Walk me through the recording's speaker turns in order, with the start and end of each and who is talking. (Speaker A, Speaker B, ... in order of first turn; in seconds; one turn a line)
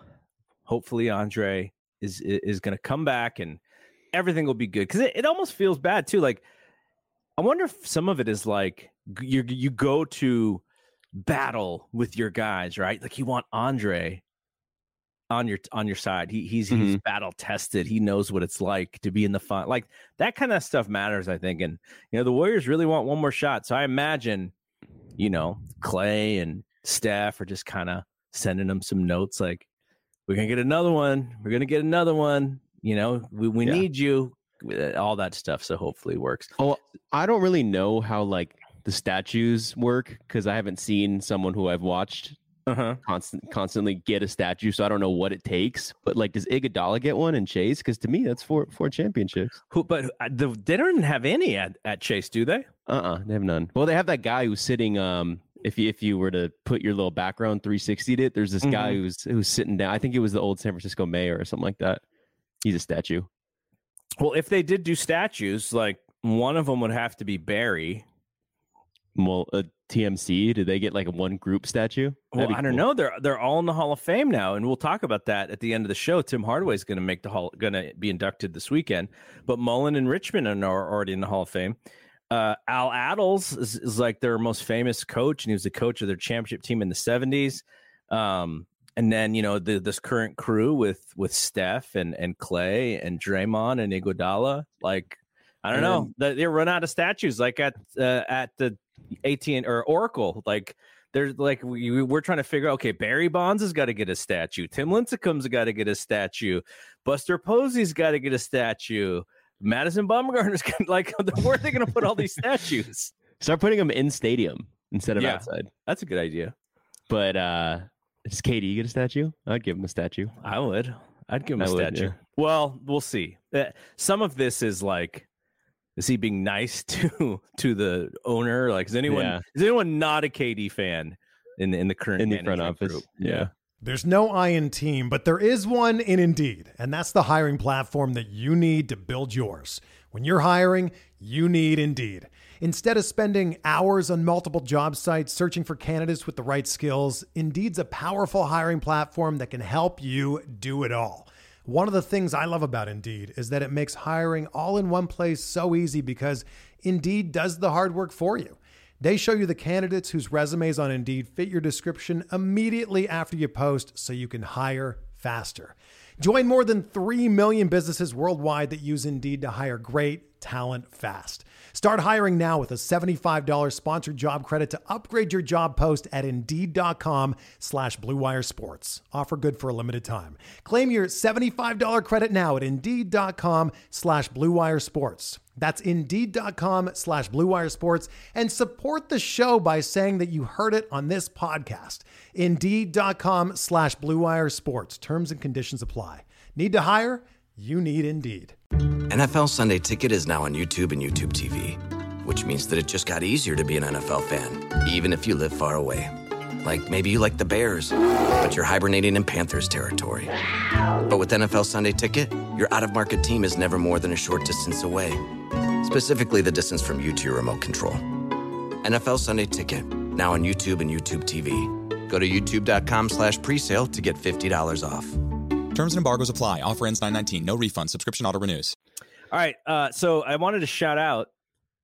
Speaker A: 0.7-3.6
Speaker A: 4.1-6.4
Speaker A: 7.4-10.6
Speaker A: 11.2-14.2
Speaker A: 15.3-24.5
Speaker B: 16.7-17.0
Speaker A: 25.2-29.6
Speaker A: 30.3-36.5
Speaker B: 36.6-42.4
Speaker A: 42.7-43.0
Speaker B: 43.0-49.6
Speaker A: 49.7-52.7
Speaker B: 52.9-62.0
Speaker A: 58.6-59.0
Speaker B: 62.6-63.3
Speaker A: 64.2-68.0
Speaker B: 69.1-72.8
Speaker A: 72.3-81.8
Speaker A: 82.3-113.1
Speaker B: 95.7-96.1
Speaker B: 113.4-115.7
Speaker A: 115.2-116.5
Speaker B: 117.1-120.3
Speaker A: 120.4-125.2
Speaker B: 121.6-122.1
Speaker A: 126.0-133.5
Speaker B: 129.1-129.4
Speaker B: 132.2-133.5
Speaker C: 133.8-198.6
Speaker D: 199.1-210.3
Speaker D: 211.0-215.2
Speaker D: 215.8-218.0
Speaker D: 218.8-225.3
Speaker E: 225.7-228.7
Speaker A: 229.3-231.3